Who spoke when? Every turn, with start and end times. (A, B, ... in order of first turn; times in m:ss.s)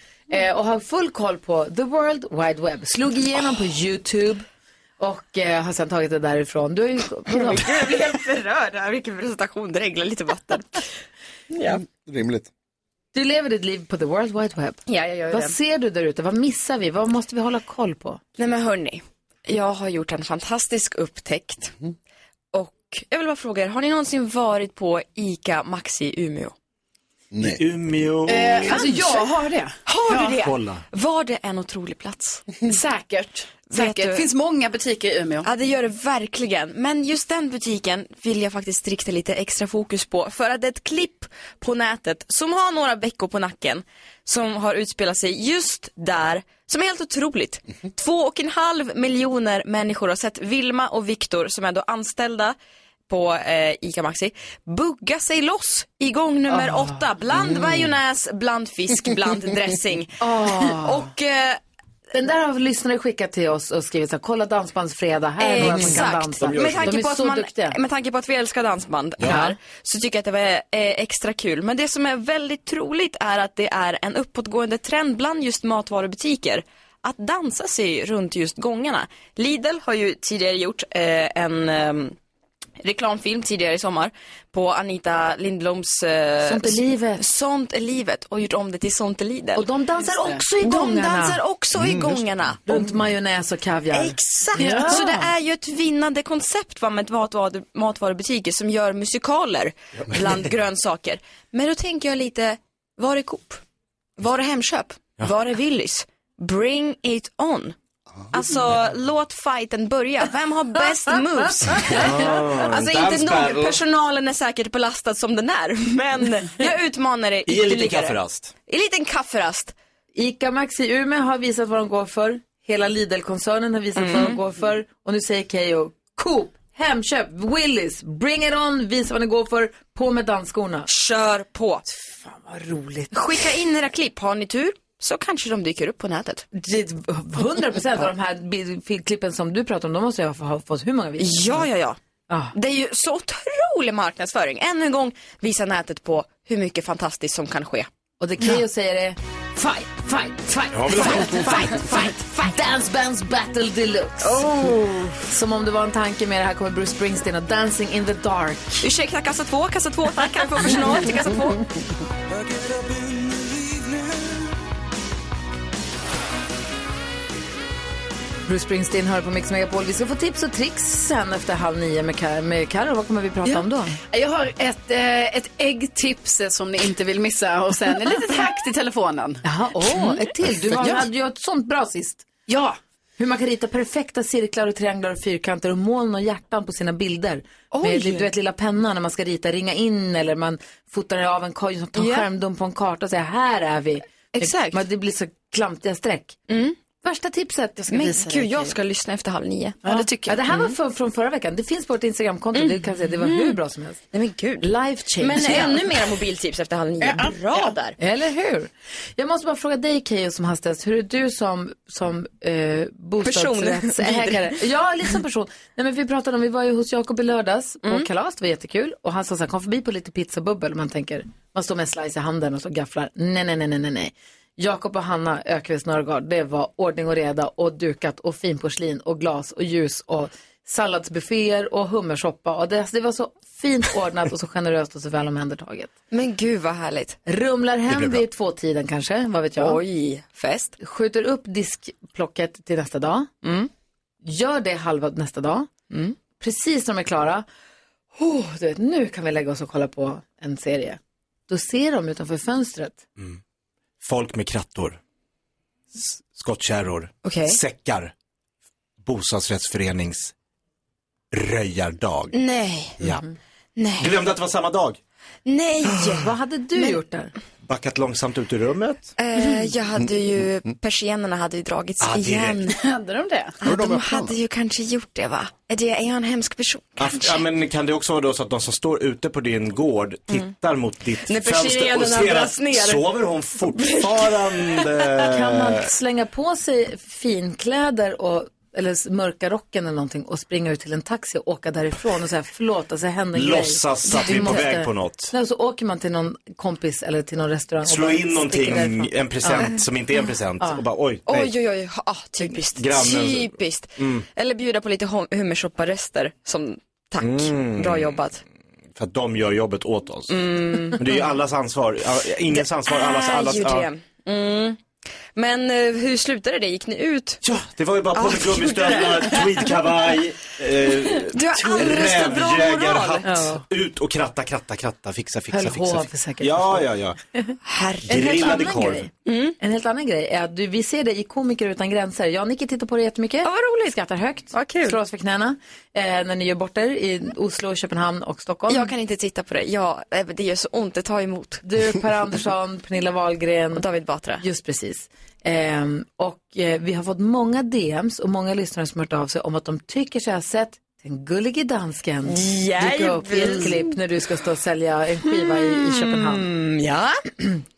0:00.3-0:04.4 A
0:05.0-0:07.7 A
0:07.3-0:10.8 B
0:11.5-0:11.8 B
0:11.6-0:12.5 C
0:13.1-0:18.2 A
0:14.9-0:15.5 B
0:18.4-0:21.7 B
0:22.5-0:26.5 B
0:27.3-0:27.6 C
0:27.4-0:28.9 D
0:28.2-0:30.5 E
0:28.6-0:29.2 B
0:29.8-0:30.4 B
0:30.2-0:30.8 D
0:30.9-0:32.6 B
0:32.6-0:35.5 E
0:33.6-0:34.2 B
0:35.4-0:52.5 B
0:53.1-1:01.6 B
0:56.5-0:57.0 A
1:00.2-1:01.1 A
1:02.1-1:07.8 A
1:05.4-1:22.2 B
1:06.4-1:07.0 D
1:09.2-1:09.6 A
1:22.8-1:29.7 B
1:26.4-1:27.2 A
1:29.5-1:31.4 A
1:30.1-1:30.4 E
1:30.6-1:33.0 B
1:32.6-1:35.3 A
1:33.9-1:43.6 B
1:34.6-1:35.2 E
1:44.2-1:47.7 B
1:48.3-1:59.7 B
1:51.8-1:53.8 D
1:57.4-1:58.5 D
2:00.1-2:10.9 A
2:04.0-2:04.4 B
2:10.9-2:11.8 B
2:11.9-2:13.2 A
2:13.1-2:16.4 B
2:16.5-2:21.7 A
2:21.2-2:22.0 B
2:22.3-2:22.5 A
2:22.5-2:27.9 B
2:28.2-2:34.6 A
2:30.7-2:31.7 D
2:32.0-2:32.5 B
2:34.2-2:35.2 B
2:35.2-2:38.9 A
2:38.8-2:41.6 B
2:48.5-2:54.0 A
2:53.4-2:59.4 E
2:59.4-3:02.2 A
3:00.7-3:01.1 E
3:02.5-3:02.8 E
3:03.2-3:16.4 A
3:07.7-3:08.3 E
3:11.9-3:12.3 B
3:14.3-3:14.8 B
3:16.5-3:16.8 B
3:17.0-3:18.7 A
3:17.9-3:19.8 B
3:19.8-3:20.4 E
3:19.8-3:24.0 A
3:22.5-3:23.6 B
3:24.1-3:28.0 B
3:24.6-3:25.9 A
3:27.0-3:27.7 E
3:28.0-3:55.9 A
3:33.2-3:34.6 B
3:56.1-3:57.2 B
3:57.2-3:59.8 A
3:57.9-3:58.2 D
3:59.6-4:00.8 B
4:00.8-4:03.3 A
4:03.4-4:03.7 B
4:04.2-4:05.7 A
4:05.9-4:06.2 B
4:06.3-4:07.4 A
4:08.2-4:13.0 A
4:14.0-4:15.0 D
4:15.9-4:18.1 D
4:17.2-4:17.6 B
4:19.0-4:20.3 D
4:21.3-4:22.3 D
4:22.3-4:23.0 B
4:23.8-4:24.1 B
4:24.0-4:25.0 D
4:25.4-4:27.0 B
4:26.0-4:27.3 A
4:27.6-4:29.2 D
4:29.2-4:32.8 B
4:32.0-4:32.6 D
4:32.7-4:33.6 E
4:33.6-4:37.4 B
4:33.6-4:34.3 C
4:37.0-4:45.9 D
4:41.3-4:43.0 B
4:43.8-4:44.9 B
4:45.2-4:59.8 A
4:53.3-4:55.3 D
4:54.0-4:54.6 B
4:57.8-5:01.5 D
5:01.3-5:08.4 B
5:02.4-5:04.2 D
5:07.2-5:08.3 D
5:09.0-5:13.9 D
5:10.3-5:11.3 B
5:12.5-5:14.8 B
5:15.3-5:17.4 B
5:17.4-5:27.2 D
5:18.1-5:19.8 B
5:20.9-5:23.4 B
5:23.2-5:23.6 A
5:25.5-5:38.9 A
5:27.6-5:28.7 B
5:28.0-5:29.1 D
5:29.2-5:29.6 B
5:33.4-5:34.0 B
5:34.5-5:35.0 B
5:38.7-5:41.6 B
5:41.6-5:43.8 A
5:43.7-5:44.4 B
5:44.4-5:56.5 A
5:52.2-5:53.9 B
5:55.2-5:57.2 B